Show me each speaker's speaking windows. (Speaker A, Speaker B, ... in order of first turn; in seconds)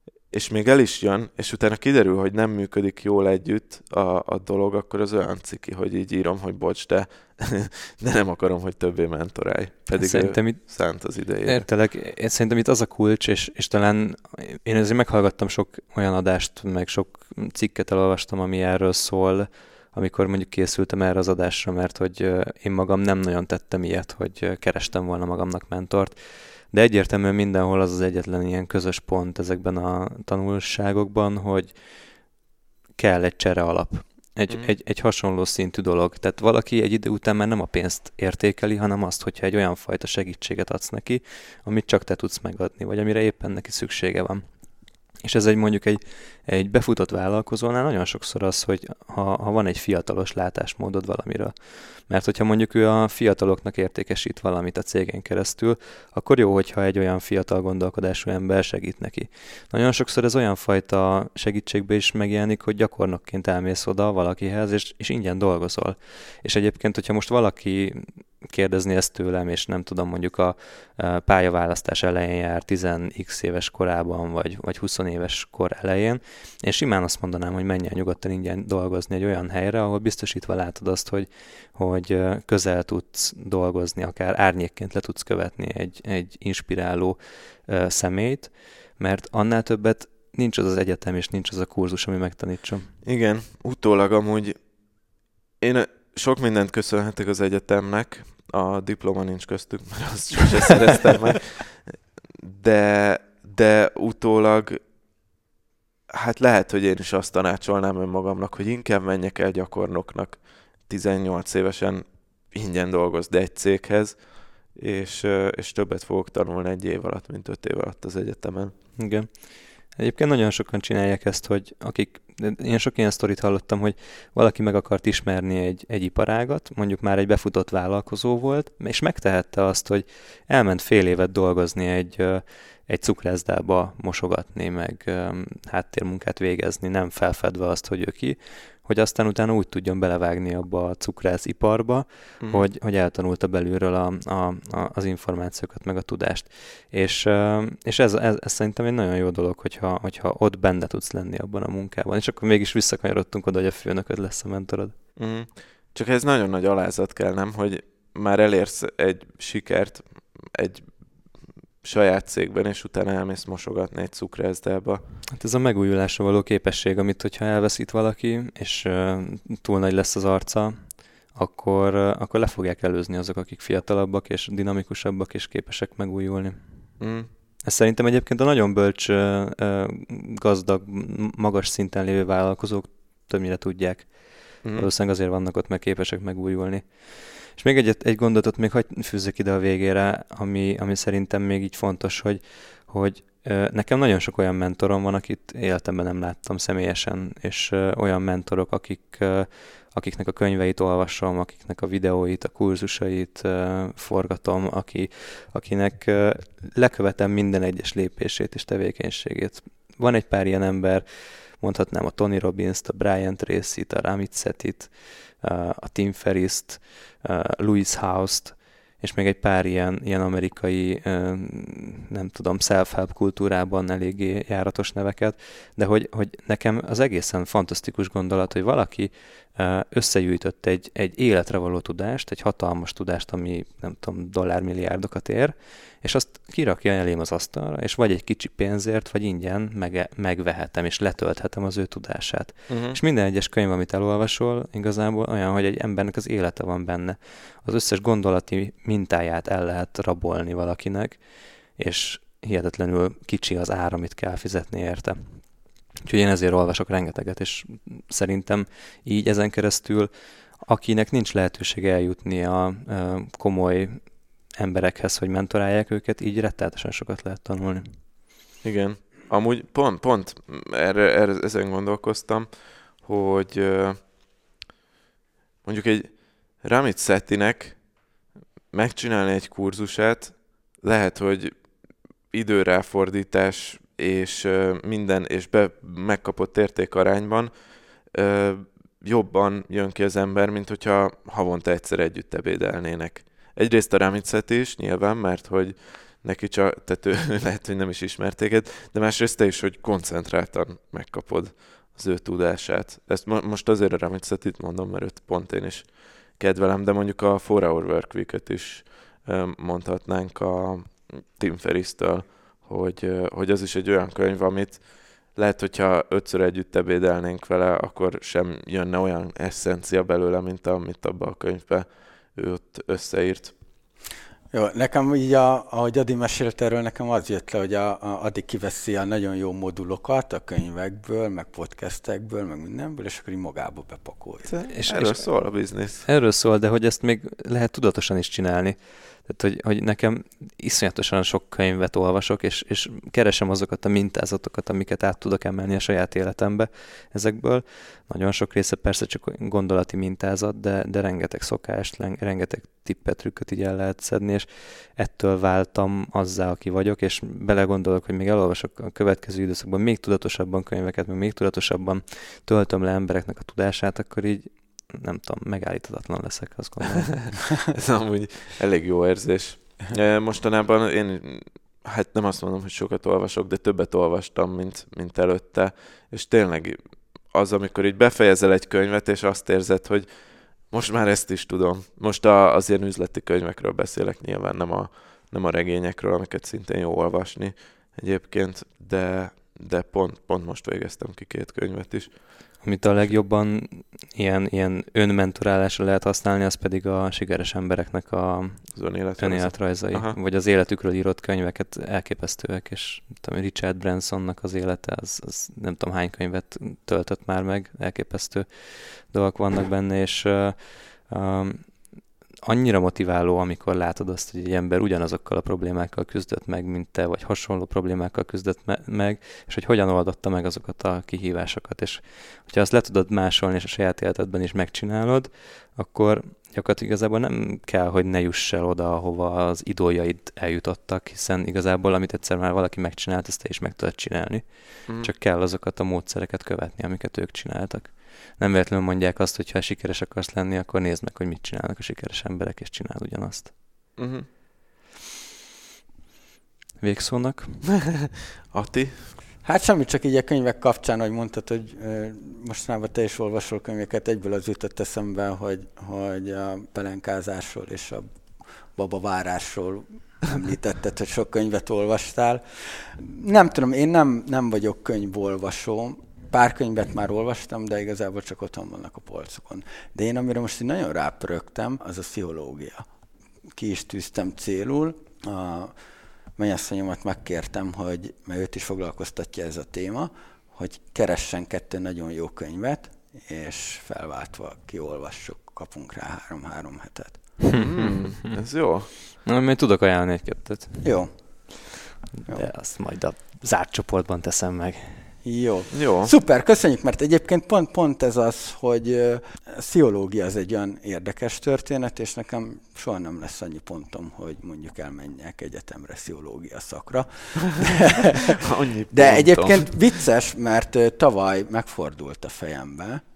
Speaker A: 0.3-11.7, 93.0-94.6, 95.6-104.8, 106.1-118.7, 142.4-142.7, 155.2-160.9, 161.8-165.0, 177.0-177.3, 184.6-184.9, 242.7-243.0, 268.6-274.0, 275.6-277.9, 278.7-281.7, 282.3-323.5, 334.4-336.0, 367.2-392.2, 398.7-400.2, 444.0-444.3, 448.5-449.2, 487.5-488.9, 495.7-496.1, 508.4-509.8
Speaker B: 9.9-32.0, 33.0-44.4, 45.2-93.0, 119.0-155.0, 165.3-177.0, 177.6-268.0, 334.7-367.4, 392.6-411.9, 412.4-443.6, 446.8-447.8, 487.4-488.4, 489.2-491.2, 492.2-495.1
Speaker C: 324.5-334.5, 449.4-458.0, 458.7-472.9, 473.5-475.7, 476.4-487.5, 490.8-491.7, 492.3-492.5, 495.2-508.4, 508.9-513.0